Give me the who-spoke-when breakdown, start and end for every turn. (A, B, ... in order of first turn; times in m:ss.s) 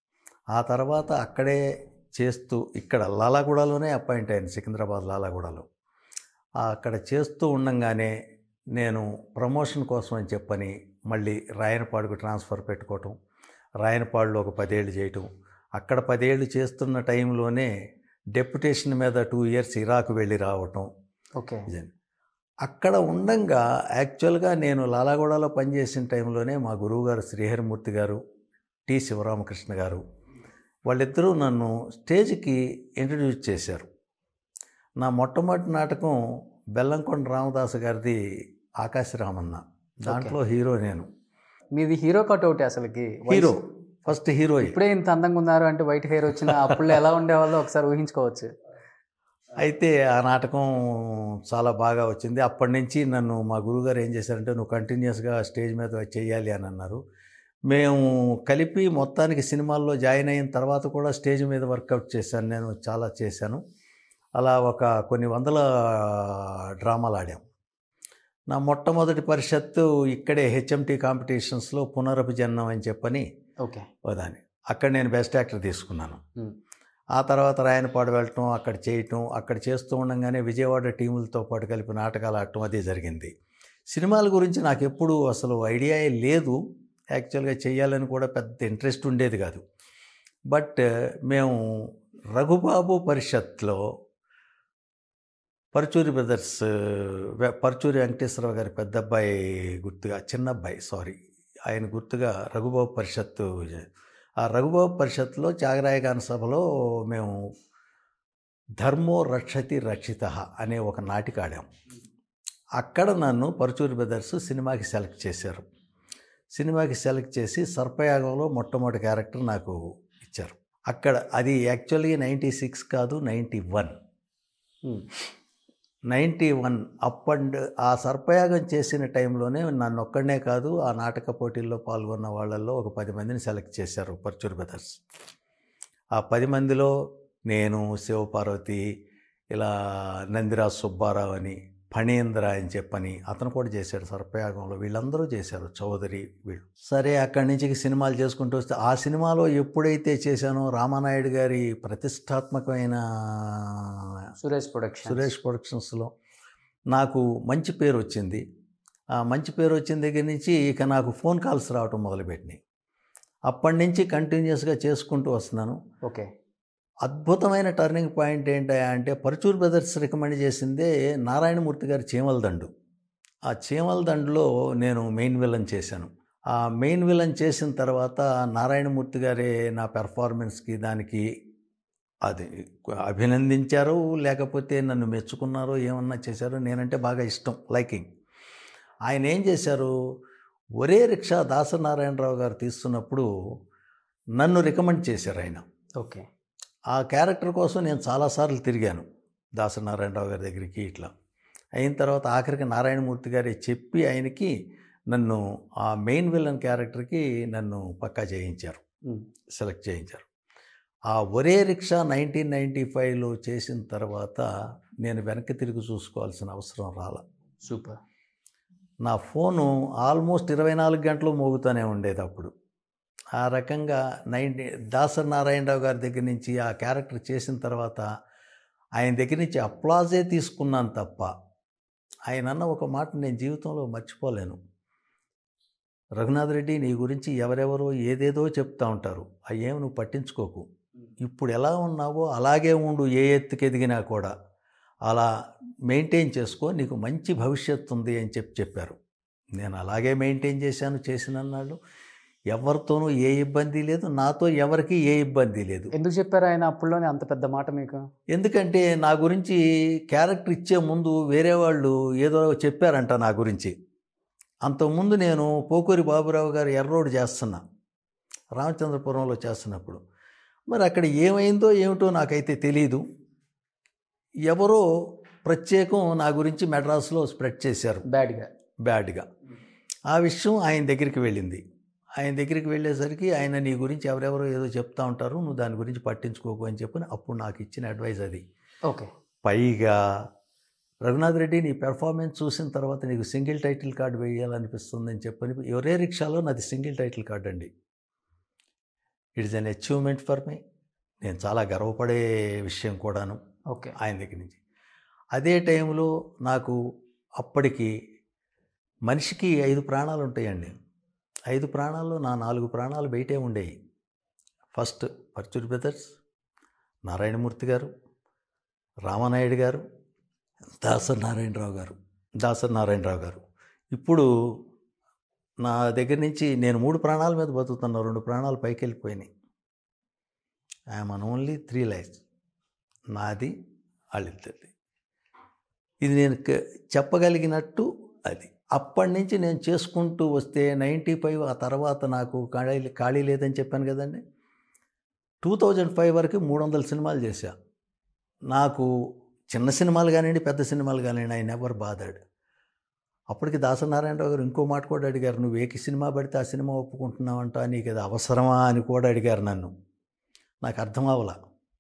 0:00.5-0:01.6 A
0:02.2-0:05.7 A
0:06.6-0:08.1 A
0:08.8-0:13.2 A
0:13.8-0:15.3 A
0:15.8-0:17.7 A
0:18.4-0:20.9 A
0:21.4-0:21.7 B
0:22.6-0:28.2 A
0:28.9-0:30.0 A
0:30.9-0:33.9 A
0:35.0-0:36.2 A
0:36.8-0:38.2 A
0:38.8-0:41.1 A
0:40.1-0:40.4 B
0:41.8-0:43.6 B
0:43.3-0:44.8 A
0:44.6-0:48.5 B
0:46.4-0:46.8 A
0:49.6-0:57.0 A
0:57.7-1:03.6 A
1:04.4-1:07.4 A
1:08.5-1:13.3 A
1:14.1-1:16.2 A
1:17.2-1:23.3 A
1:23.9-1:26.6 A
1:27.2-1:29.6 A
1:30.5-1:33.8 A
1:35.7-1:41.2 A
1:41.7-1:43.9 A
1:44.4-1:47.4 A
1:48.8-1:51.7 A
1:52.8-1:55.6 A
1:56.6-2:03.9 A
2:06.1-2:15.0 A
2:16.2-2:16.9 A
2:17.5-2:18.8 A
2:20.3-2:34.0 A
2:34.4-2:35.3 B
2:35.1-2:36.1 A
2:36.9-2:38.4 A
2:39.2-2:42.6 A
2:43.5-2:45.8 A
2:47.0-2:52.7 A
2:53.5-3:01.2 A
3:02.3-3:02.5 A
3:03.0-3:08.1 A
3:09.1-3:09.9 A
3:10.8-3:13.3 A
3:14.4-3:15.6 A
3:16.0-3:16.2 B
3:16.9-3:19.1 A
3:19.6-3:21.1 A
3:21.8-3:24.5 A
3:25.1-3:28.8 A
3:29.6-3:30.2 A
3:31.1-3:34.5 A
3:35.0-3:37.2 A
3:37.7-3:38.0 B
3:39.1-3:42.5 A
3:43.4-3:48.1 A
3:49.0-3:51.3 A
3:52.3-3:54.6 A
3:56.2-4:00.7 A
4:01.2-4:04.3 A
4:05.9-4:09.0 A
4:09.6-4:11.8 A
4:12.5-4:15.9 A
4:15.9-4:18.0 B
4:18.3-4:19.6 A
4:20.1-4:23.8 A
4:24.7-4:27.6 A
4:28.6-4:30.0 A
4:30.7-4:33.0 A
4:34.5-4:34.8 A
4:35.5-4:38.0 A
4:38.1-4:38.5 B
4:38.9-4:39.3 A
4:40.1-4:41.6 A
4:42.2-4:48.4 A
4:49.4-4:50.0 A
4:51.0-4:57.7 A
4:59.4-5:00.6 A
5:01.2-5:03.4 A
5:04.0-5:04.6 A
5:05.4-5:06.8 A
5:07.4-5:07.9 A
5:09.1-5:10.7 A
5:11.5-5:13.7 A
5:14.7-5:16.0 A
5:17.1-5:17.9 A
5:19.1-5:19.8 A
5:20.8-5:23.4 A
5:23.9-5:24.3 A
5:25.6-5:29.3 A
5:30.9-5:32.2 A
5:33.1-5:33.5 A
5:34.2-5:34.7 A
5:36.0-5:44.2 A
5:45.4-5:47.5 A
5:48.5-5:48.9 A
5:49.5-5:52.2 A
5:53.3-5:59.7 A
6:00.6-6:01.4 A